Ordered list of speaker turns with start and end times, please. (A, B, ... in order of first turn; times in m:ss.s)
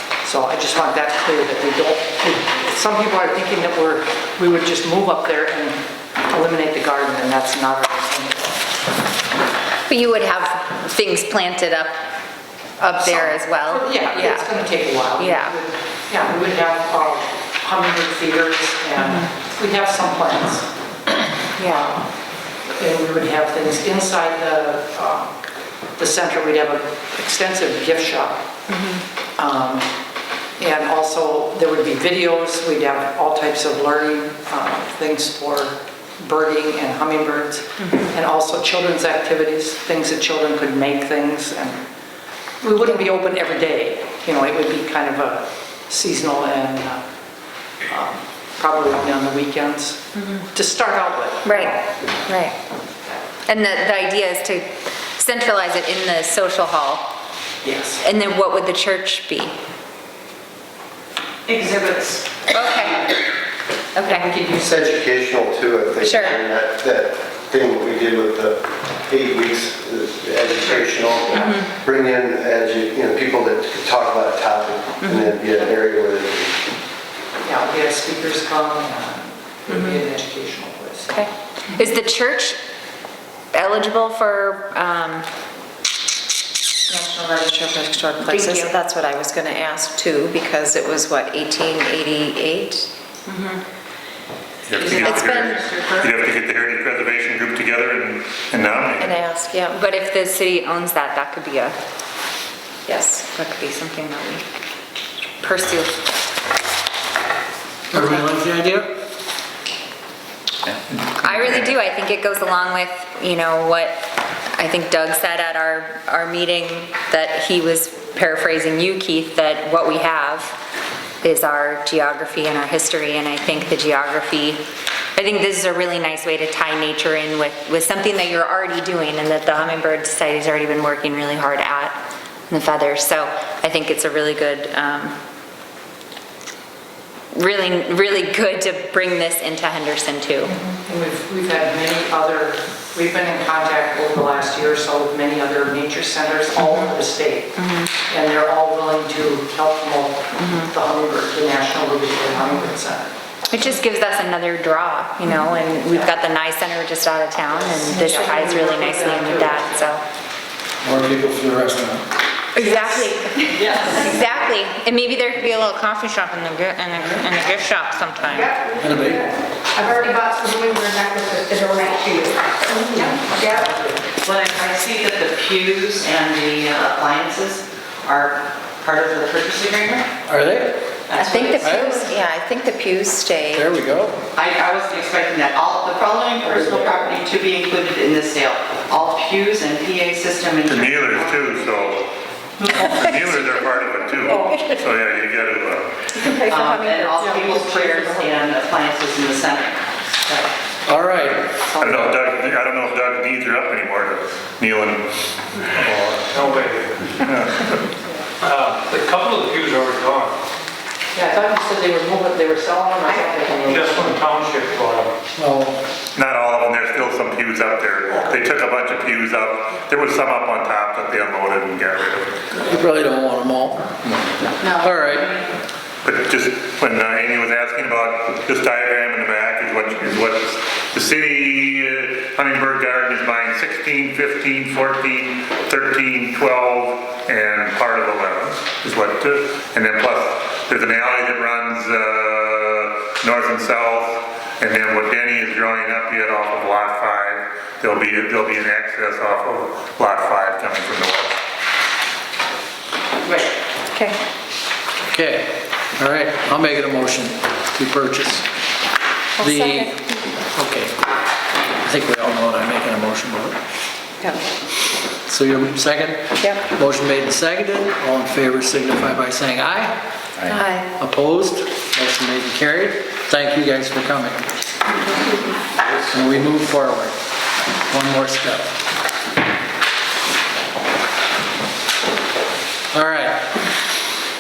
0:00.2-0:08.7 A
0:09.9-0:12.0 B
0:12.8-0:20.7 A
0:12.9-0:14.5 B
0:15.2-0:15.5 B
0:19.0-0:19.2 B
0:21.6-0:21.9 B
0:21.7-0:22.1 A
0:22.7-0:25.4 A
0:26.0-0:28.5 A
0:28.7-0:29.0 B
0:29.4-0:29.9 A
0:30.6-0:41.8 A
0:37.8-0:38.1 B
0:42.6-0:47.1 A
0:47.8-0:51.8 A
0:51.4-0:51.8 B
0:52.3-0:52.6 B
0:53.5-0:57.1 B
0:57.6-0:58.0 A
0:58.0-0:59.6 B
1:01.5-1:03.1 C
1:02.5-1:03.1 B
1:04.0-1:04.3 B
1:04.0-1:05.0 A
1:04.6-1:16.6 D
1:06.0-1:06.4 B
1:15.0-1:15.3 B
1:17.4-1:21.3 A
1:19.7-1:20.0 B
1:21.1-1:22.6 B
1:23.5-1:25.3 B
1:26.9-1:32.9 E
1:28.2-1:28.7 B
1:33.3-1:33.6 B
1:34.7-1:39.2 F
1:34.8-1:36.2 C
1:35.0-1:35.6 E
1:39.0-1:39.8 E
1:39.7-1:41.8 B
1:42.9-1:43.2 E
1:43.2-1:44.4 B
1:45.4-1:46.0 B
1:47.9-1:48.9 G
1:51.2-2:00.6 B
2:01.2-2:04.6 B
2:05.2-2:15.2 B
2:17.3-2:20.6 B
2:20.5-2:33.2 A
2:26.6-2:26.9 B
2:27.6-2:27.9 B
2:30.4-2:30.7 B
2:33.5-2:40.0 B
2:37.6-2:40.0 A
2:40.8-2:42.0 G
2:42.6-2:48.6 B
2:48.3-2:53.7 H
2:48.8-2:49.3 G
2:53.4-2:53.9 A
2:54.2-3:00.1 C
3:00.3-3:00.8 G
3:01.1-3:01.7 C
3:01.1-3:03.7 E
3:01.5-3:02.2 G
3:03.5-3:04.2 G
3:04.4-3:12.0 C
3:06.6-3:07.1 H
3:10.7-3:12.0 F
3:12.6-3:13.0 C
3:12.8-3:13.6 E
3:12.8-3:16.0 F
3:14.4-3:14.8 E
3:16.2-3:17.4 E
3:16.4-3:19.8 C
3:17.2-3:17.6 A
3:17.4-3:18.2 H
3:20.9-3:21.5 G
3:21.6-3:22.3 A
3:21.8-3:25.1 F
3:25.8-3:27.3 I
3:25.8-3:26.1 F
3:27.2-3:27.8 F
3:28.4-3:30.4 I
3:31.1-3:34.2 A
3:33.6-3:35.2 I
3:35.4-3:35.8 G
3:36.1-3:42.4 F
3:42.5-3:45.4 G
3:46.0-4:11.4 F
4:15.1-4:18.5 G
4:19.4-4:19.9 G
4:19.4-4:20.0 E
4:20.5-4:20.9 G
4:21.8-4:23.6 G
4:25.3-4:30.0 G
4:30.5-4:30.9 E
4:31.0-4:34.4 G
4:36.1-4:37.2 G
4:37.9-4:38.7 G
4:42.9-4:43.4 G